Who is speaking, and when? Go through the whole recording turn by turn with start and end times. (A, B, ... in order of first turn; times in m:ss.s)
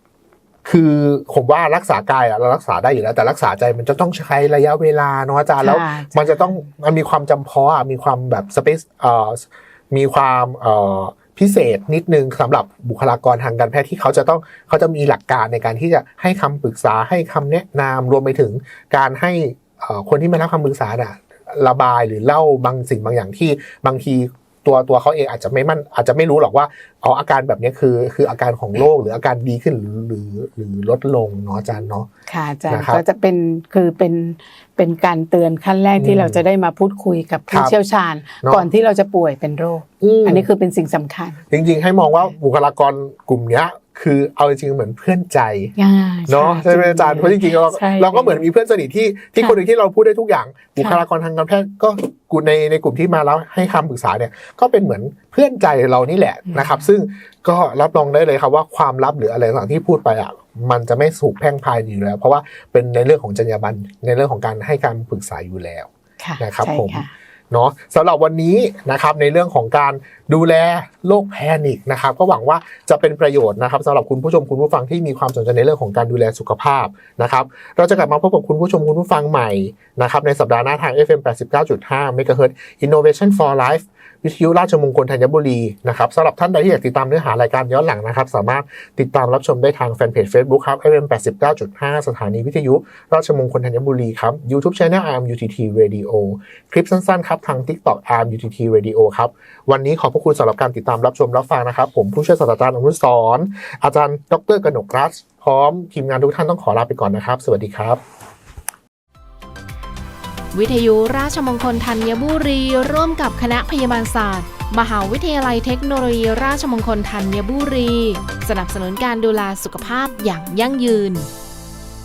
0:00.6-0:32.1 A
0:05.6-0:06.6 B
0:32.3-0:41.4 B
0:32.7-0:33.0 A
0:36.0-0:36.4 A
0:37.5-0:37.8 A
0:40.0-0:40.5 A
0:41.5-0:45.7 A
0:45.8-0:48.5 B
0:46.3-1:48.0 A
0:50.8-0:51.0 B
0:56.5-0:56.8 B
1:06.2-1:07.1 B
1:50.5-2:01.3 C